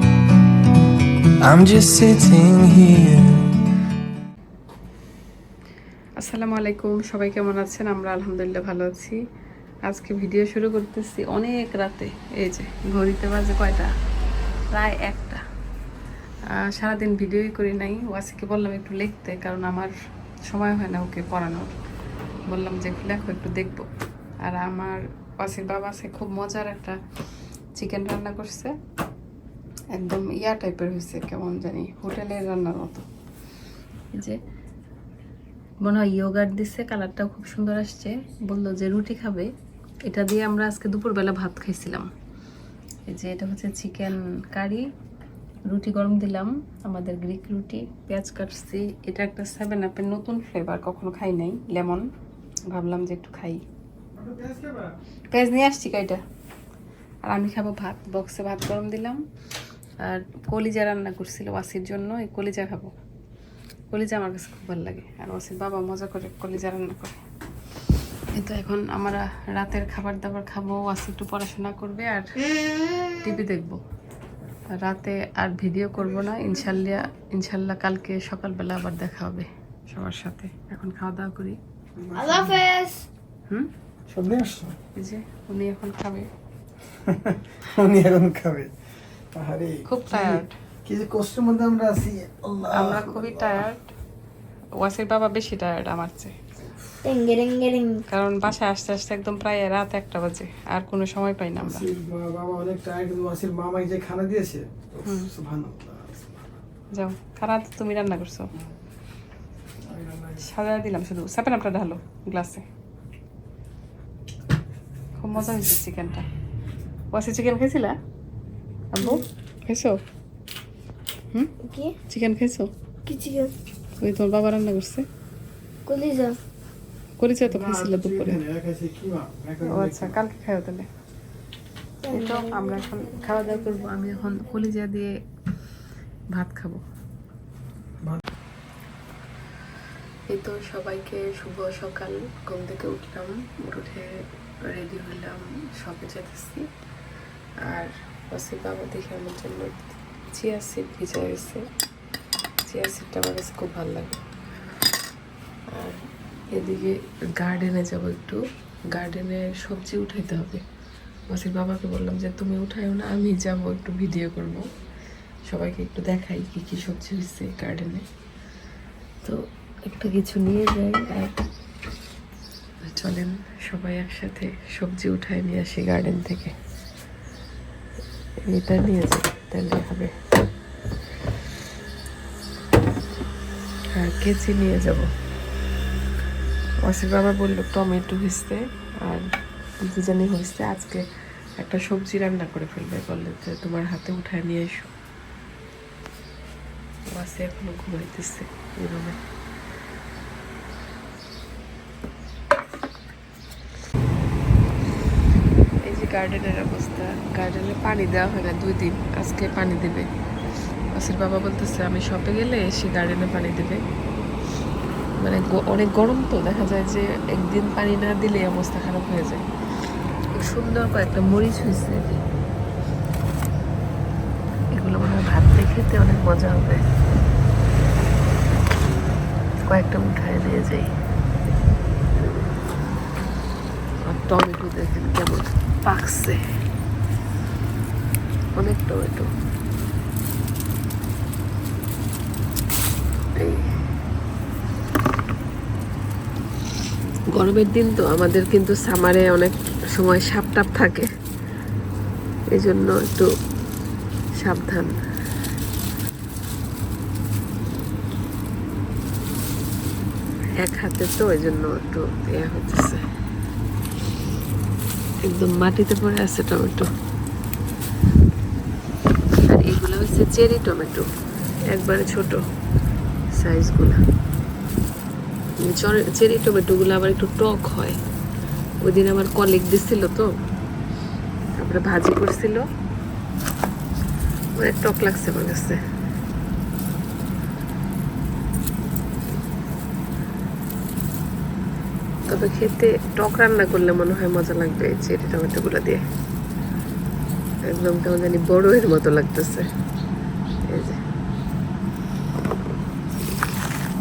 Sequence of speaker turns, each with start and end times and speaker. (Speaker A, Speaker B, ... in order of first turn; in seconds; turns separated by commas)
Speaker A: 1.4-3.4, Speaker B: 6.2-9.2, Speaker B: 9.9-13.9, Speaker B: 14.7-15.4, Speaker B: 16.6-19.9, Speaker B: 20.5-21.8, Speaker B: 22.5-23.9, Speaker B: 24.5-27.0, Speaker B: 27.8-28.8, Speaker B: 30.0-33.1, Speaker B: 34.1-34.4, Speaker B: 35.8-39.5, Speaker B: 40.1-42.1, Speaker B: 43.1-44.8, Speaker B: 45.7-52.1, Speaker B: 52.7-53.6, Speaker C: 54.1-55.0, Speaker B: 55.3-56.2, Speaker B: 57.3-59.2, Speaker B: 60.0-62.9, Speaker B: 63.9-67.2, Speaker B: 68.4-72.3, Speaker B: 73.1-73.8, Speaker B: 74.8-81.6, Speaker C: 76.1-76.9, Speaker C: 82.0-82.7, Speaker D: 82.2-83.1, Speaker C: 84.1-84.8, Speaker B: 85.0-86.3, Speaker C: 87.0-88.7, Speaker C: 89.3-93.7, Speaker B: 89.9-90.5, Speaker B: 92.7-93.8, Speaker B: 94.8-96.4, Speaker D: 97.0-98.0, Speaker B: 98.1-101.8, Speaker C: 101.6-106.2, Speaker B: 107.0-108.5, Speaker C: 109.8-110.5, Speaker B: 110.5-112.7, Speaker B: 115.2-116.3, Speaker B: 117.1-118.0, Speaker B: 118.9-120.0, Speaker D: 121.6-122.0, Speaker B: 122.1-122.7, Speaker D: 123.1-123.5, Speaker B: 124.0-125.1, Speaker D: 125.9-126.4, Speaker B: 127.2-128.4, Speaker C: 127.4-130.2, Speaker B: 129.7-130.9, Speaker D: 132.0-134.4, Speaker B: 132.1-135.2, Speaker B: 136.3-136.8, Speaker B: 140.3-146.7, Speaker B: 147.7-151.6, Speaker B: 152.7-154.3, Speaker B: 155.7-160.6, Speaker B: 161.3-164.7, Speaker B: 165.5-168.0, Speaker B: 169.2-171.4, Speaker B: 172.8-176.5, Speaker B: 178.4-180.1, Speaker B: 183.9-185.1, Speaker B: 186.8-189.3, Speaker B: 189.8-191.1, Speaker B: 191.6-194.9, Speaker B: 197.1-199.2, Speaker B: 205.8-210.1, Speaker B: 210.9-213.8, Speaker B: 215.2-219.4, Speaker B: 220.3-222.2, Speaker B: 224.7-226.8, Speaker B: 229.6-230.9, Speaker B: 234.0-236.4, Speaker B: 238.6-239.3, Speaker B: 243.4-243.8, Speaker B: 247.3-251.1, Speaker B: 252.5-253.3, Speaker B: 254.4-255.0, Speaker B: 260.6-263.0, Speaker B: 265.2-266.9, Speaker B: 269.4-271.1, Speaker B: 271.7-272.4, Speaker B: 273.3-274.0, Speaker B: 275.6-278.0, Speaker B: 278.8-280.3, Speaker B: 281.6-282.6, Speaker B: 284.6-285.8, Speaker B: 292.3-296.0, Speaker B: 297.6-299.7, Speaker B: 300.7-301.0